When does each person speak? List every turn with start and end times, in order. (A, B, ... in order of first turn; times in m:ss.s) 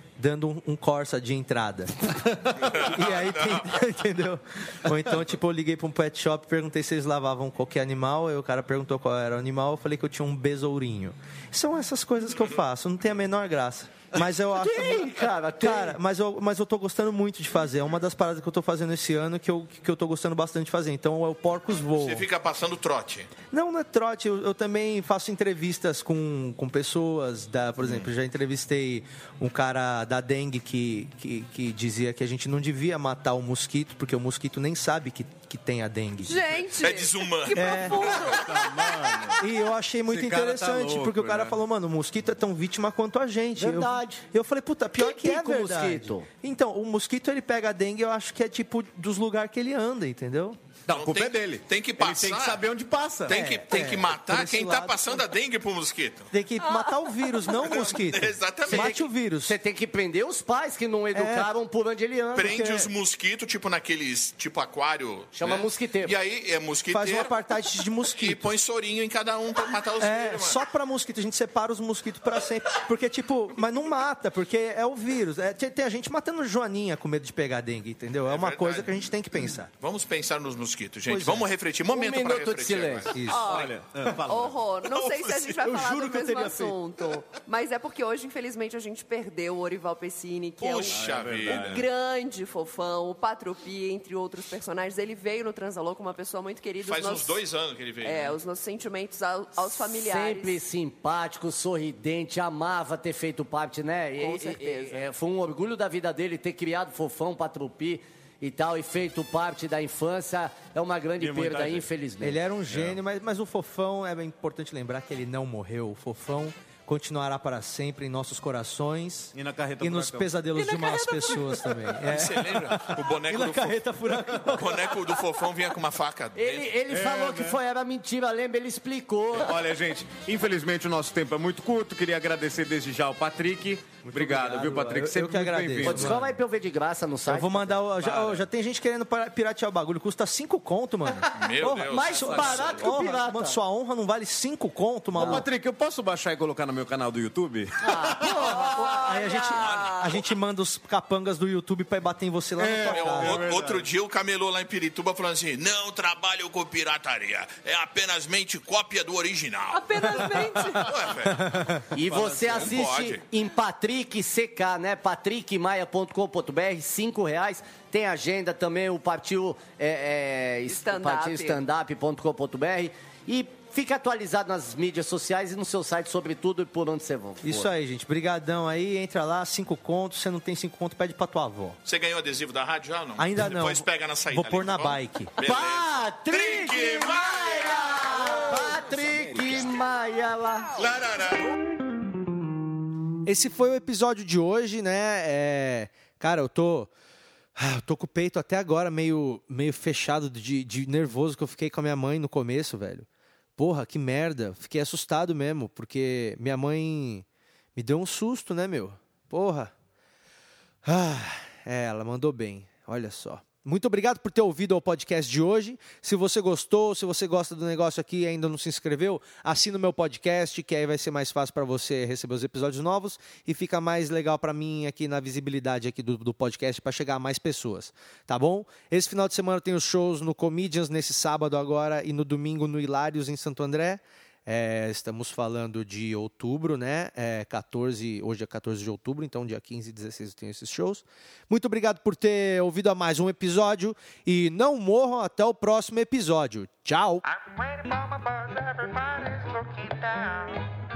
0:00.2-0:22.3 A
0:02.6-0:03.8 B
0:14.5-0:16.0 C
0:22.0-0:23.3 B
0:23.5-0:36.4 A
0:27.8-0:28.1 B
0:36.2-0:39.4 D
0:36.7-0:38.4 B
0:37.5-0:38.1 A
0:38.2-0:39.4 E
0:39.4-0:50.6 A
0:40.1-0:41.6 E
0:43.6-0:44.2 C
0:45.0-0:46.3 C
0:50.9-0:53.4 E
0:50.9-0:52.6 B
0:53.3-0:56.3 B
0:53.3-0:55.3 A
0:56.3-0:59.6 A
0:56.7-0:57.1 D
0:57.6-0:59.0 B
0:58.6-1:02.6 C
1:01.1-1:01.5 A
1:02.4-1:07.4 B
1:02.4-1:02.9 A
1:05.3-1:06.2 C
1:06.9-1:08.5 A
1:08.1-1:10.6 B
1:10.0-1:19.7 A
1:18.3-1:18.9 B
1:19.8-1:23.5 B
1:21.1-1:21.5 A
1:21.9-1:23.1 C
1:23.1-1:23.5 A
1:23.2-1:37.4 D
1:23.5-1:24.5 E
1:25.0-1:25.4 B
1:25.5-1:26.8 A
1:30.6-1:31.8 B
1:30.9-1:31.8 E
1:36.8-1:38.4 B
1:38.0-1:40.6 D
1:39.7-1:52.4 C
1:44.2-1:45.0 D
1:51.2-1:51.9 E
1:52.2-2:05.2 A
1:52.7-1:53.0 E
1:59.3-2:00.3 E
2:00.6-2:02.0 D
2:02.1-2:03.8 B
2:04.4-2:06.7 B
2:06.4-2:09.5 C
2:06.9-2:07.6 E
2:09.4-2:16.3 E
2:14.0-2:16.3 A
2:15.8-2:17.8 C
2:17.3-2:25.4 A
2:18.0-2:18.4 E
2:21.3-2:22.8 B
2:21.9-2:23.6 C
2:22.3-2:22.8 E
2:25.2-2:25.4 C
2:25.2-2:28.5 E
2:27.8-2:28.8 C
2:28.2-2:33.4 A
2:28.6-2:29.9 D
2:29.5-2:30.3 B
2:32.6-2:33.9 E
2:32.8-2:43.2 B
2:39.7-2:41.1 D
2:41.3-2:41.9 A
2:41.9-2:57.7 C
2:42.0-2:42.8 E
2:50.7-2:51.6 D
2:57.4-3:01.8 A
3:01.8-3:08.0 B
3:03.2-3:05.3 A
3:05.4-3:10.8 C
3:08.3-3:09.7 E
3:10.8-3:11.5 B
3:13.2-3:16.9 A
3:17.6-3:27.2 A
3:27.8-3:29.7 A
3:30.8-4:07.2 A
4:07.3-4:10.8 F